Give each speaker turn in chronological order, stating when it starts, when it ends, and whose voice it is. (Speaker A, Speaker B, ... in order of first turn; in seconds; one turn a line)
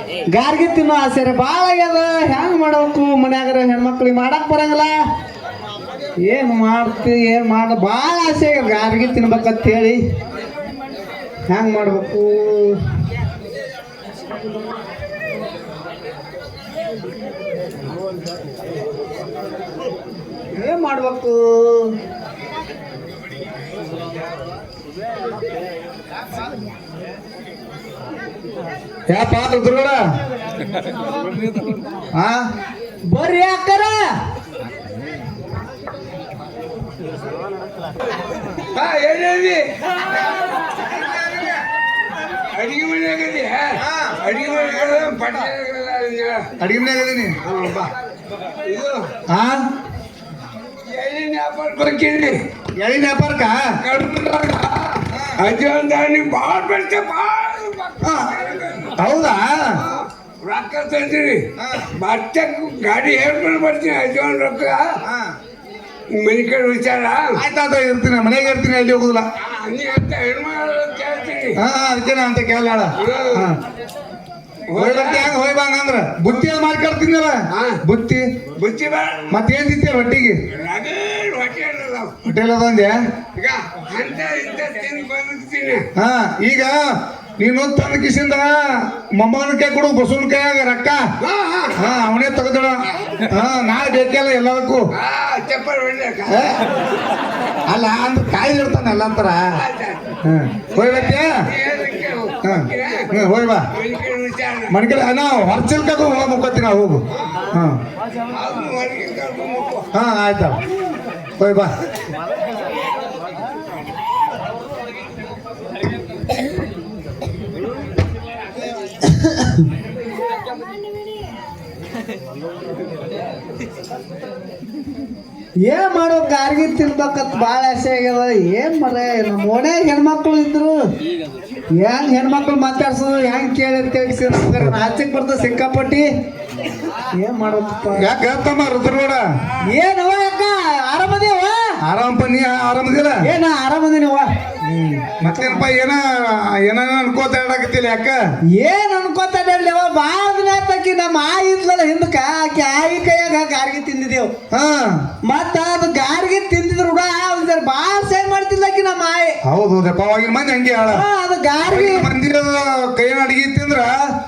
Speaker A: 0.3-4.9
Speaker A: 6.2-10.0
Speaker A: 11.5-12.8
Speaker A: 20.5-21.9
Speaker B: 29.1-30.0
Speaker B: 32.1-32.5
Speaker A: 33.1-34.1
Speaker C: 38.7-39.8
Speaker B: 40.3-41.6
Speaker C: 42.5-46.5
Speaker B: 43.8-44.2
Speaker B: 46.6-47.3
Speaker C: 47.5-47.9
Speaker C: 48.5-49.1
Speaker B: 49.3-49.7
Speaker C: 50.9-52.4
Speaker B: 52.7-53.6
Speaker C: 53.8-59.0
Speaker B: 55.1-55.4
Speaker B: 58.0-58.4
Speaker B: 58.9-59.8
Speaker C: 59.8-64.9
Speaker B: 61.6-61.9
Speaker B: 65.0-65.3
Speaker C: 66.1-67.3
Speaker B: 67.3-69.2
Speaker C: 69.4-71.6
Speaker B: 71.6-73.6
Speaker C: 73.0-73.4
Speaker C: 74.7-75.3
Speaker B: 74.7-78.3
Speaker C: 77.5-77.8
Speaker C: 78.5-79.3
Speaker B: 79.3-80.4
Speaker C: 80.5-82.2
Speaker B: 82.2-83.0
Speaker C: 83.3-85.8
Speaker B: 86.0-91.0
Speaker C: 91.2-91.8
Speaker B: 91.8-94.8
Speaker C: 94.9-96.5
Speaker B: 96.3-96.6
Speaker B: 97.7-99.5
Speaker C: 99.6-100.0
Speaker B: 100.2-101.4
Speaker C: 101.4-103.1
Speaker B: 102.4-103.6
Speaker C: 103.7-104.7
Speaker B: 104.7-107.8
Speaker C: 108.3-109.9
Speaker B: 109.9-110.6
Speaker B: 111.4-111.7
Speaker A: 119.1-119.6
Speaker A: 125.6-130.8
Speaker A: 131.8-136.1
Speaker A: 137.2-138.1
Speaker B: 137.9-139.2
Speaker A: 139.6-141.8
Speaker B: 141.8-143.2
Speaker A: 143.2-144.3
Speaker B: 144.6-148.2
Speaker A: 145.2-145.7
Speaker A: 148.5-154.3
Speaker B: 154.5-155.1
Speaker A: 155.2-159.4
Speaker B: 159.4-161.0
Speaker A: 160.9-162.1
Speaker B: 161.6-164.1